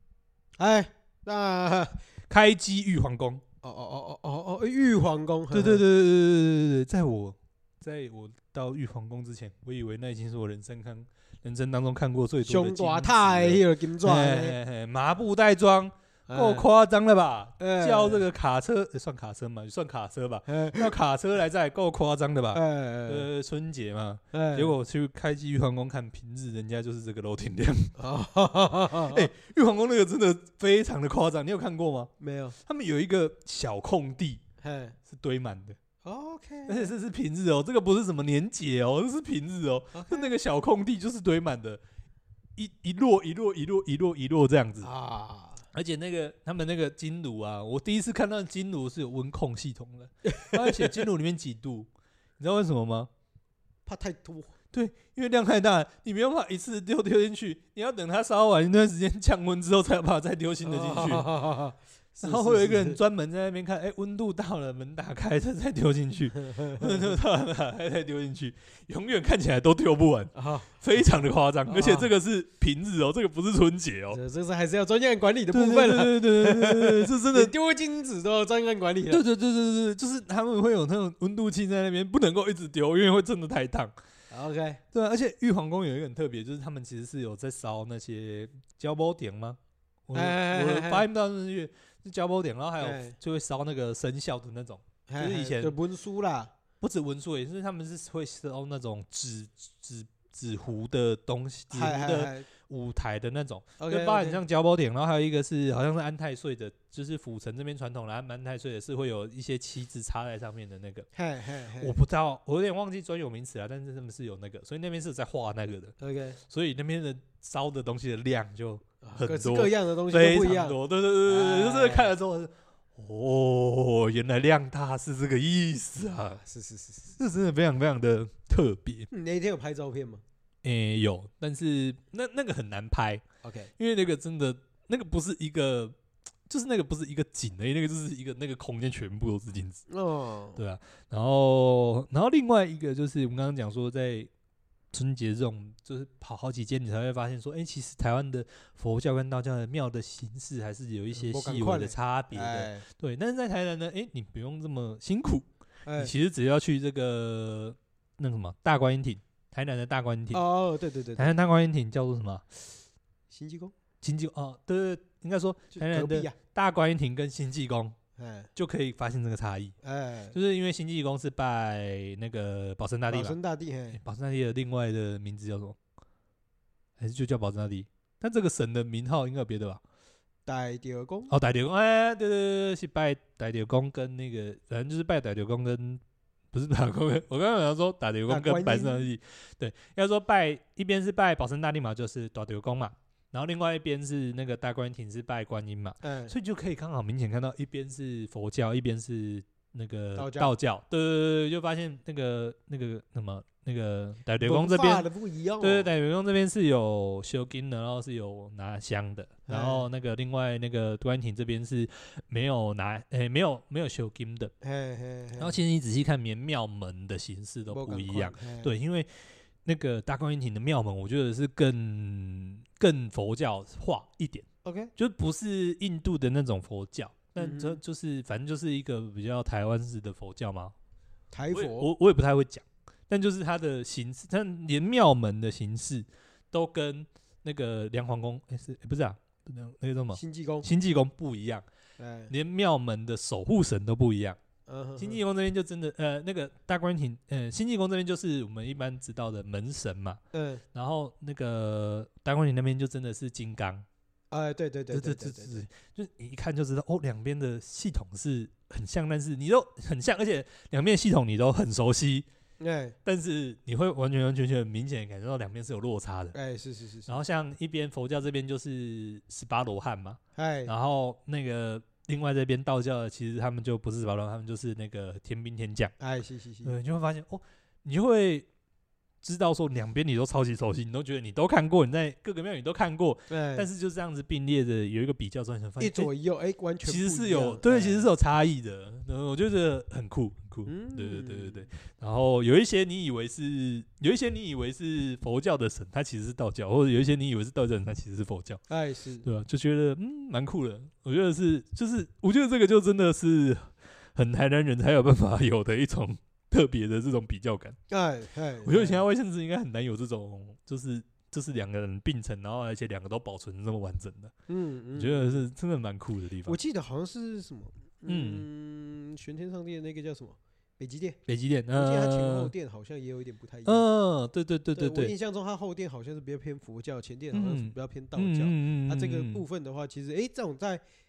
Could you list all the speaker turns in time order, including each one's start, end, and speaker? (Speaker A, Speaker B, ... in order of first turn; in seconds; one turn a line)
Speaker A: 0.6-2.0
Speaker B: 2.3-3.4
Speaker A: 3.6-5.8
Speaker B: 5.5-27.9
Speaker A: 12.4-14.6
Speaker A: 16.3-16.7
Speaker A: 17.6-18.2
Speaker A: 20.5-20.9
Speaker A: 22.5-23.3
Speaker A: 24.3-24.8
Speaker A: 28.0-29.3
Speaker B: 28.9-32.1
Speaker A: 32.2-32.5
Speaker B: 32.6-34.4
Speaker A: 34.6-35.0
Speaker B: 35.1-35.8
Speaker A: 36.0-36.9
Speaker B: 36.7-41.8
Speaker A: 39.9-40.3
Speaker B: 42.5-44.9
Speaker A: 44.8-45.6
Speaker B: 45.7-53.1
Speaker A: 50.2-51.0
Speaker A: 53.9-54.5
Speaker B: 54.7-61.3
Speaker A: 60.6-63.0
Speaker B: 62.2-74.2
Speaker A: 66.3-67.1
Speaker A: 70.3-71.0
Speaker A: 71.7-72.1
Speaker A: 74.1-79.2
Speaker B: 75.5-77.5
Speaker B: 79.1-83.9
Speaker A: 84.3-84.8
Speaker B: 84.9-95.7
Speaker A: 90.1-91.0
Speaker A: 92.8-93.2
Speaker A: 95.1-96.5
Speaker B: 96.8-111.1
Speaker A: 101.7-102.5
Speaker A: 103.8-104.4
Speaker A: 111.1-112.0
Speaker B: 111.8-126.4
Speaker A: 116.0-116.4
Speaker A: 119.0-122.1
Speaker A: 126.3-127.2
Speaker B: 127.2-129.1
Speaker A: 129.1-130.2
Speaker B: 130.6-133.2
Speaker A: 133.4-133.7
Speaker B: 133.8-135.9
Speaker B: 136.5-139.8
Speaker A: 139.9-140.6
Speaker B: 140.6-144.3
Speaker B: 144.9-160.4
Speaker A: 151.1-152.8
Speaker A: 155.8-156.1
Speaker A: 160.3-161.3
Speaker B: 161.2-162.4
Speaker A: 163.3-163.7
Speaker B: 164.0-167.9
Speaker A: 165.7-166.3
Speaker A: 168.2-168.5
Speaker B: 168.6-169.7
Speaker A: 169.8-170.3
Speaker B: 170.3-173.3
Speaker A: 173.1-174.0
Speaker B: 173.9-175.8
Speaker B: 177.0-179.8
Speaker A: 180.4-181.3
Speaker B: 181.3-205.1
Speaker A: 188.3-189.1
Speaker A: 196.0-196.3
Speaker A: 200.2-200.5
Speaker A: 204.4-205.9
Speaker B: 205.6-214.5
Speaker A: 209.5-209.9
Speaker A: 214.6-215.6
Speaker B: 215.4-219.1
Speaker A: 217.7-218.7
Speaker B: 219.6-230.7
Speaker A: 224.6-224.9
Speaker A: 227.4-227.8
Speaker A: 231.3-231.9
Speaker B: 231.5-241.6
Speaker A: 240.1-240.7
Speaker A: 242.0-242.3
Speaker B: 242.3-244.4
Speaker A: 244.7-245.2
Speaker B: 245.0-250.2
Speaker A: 250.3-250.6
Speaker B: 250.7-253.8
Speaker A: 254.3-255.6
Speaker B: 254.9-262.2
Speaker A: 262.6-262.9
Speaker B: 263.0-266.4
Speaker A: 266.3-267.1
Speaker B: 267.1-275.9
Speaker A: 270.4-270.7
Speaker A: 276.0-276.8
Speaker B: 276.6-278.5
Speaker B: 279.2-286.1
Speaker A: 283.3-283.7
Speaker A: 285.8-288.1
Speaker B: 286.8-298.6
Speaker A: 290.6-291.7
Speaker A: 298.7-299.2
Speaker B: 299.2-307.8
Speaker A: 307.9-309.0
Speaker B: 308.6-314.3
Speaker A: 314.5-315.4
Speaker B: 314.9-316.6
Speaker A: 316.4-321.2
Speaker B: 318.1-318.4
Speaker B: 321.3-322.5
Speaker A: 321.7-323.9
Speaker B: 323.6-325.1
Speaker A: 324.8-330.8
Speaker B: 327.3-329.4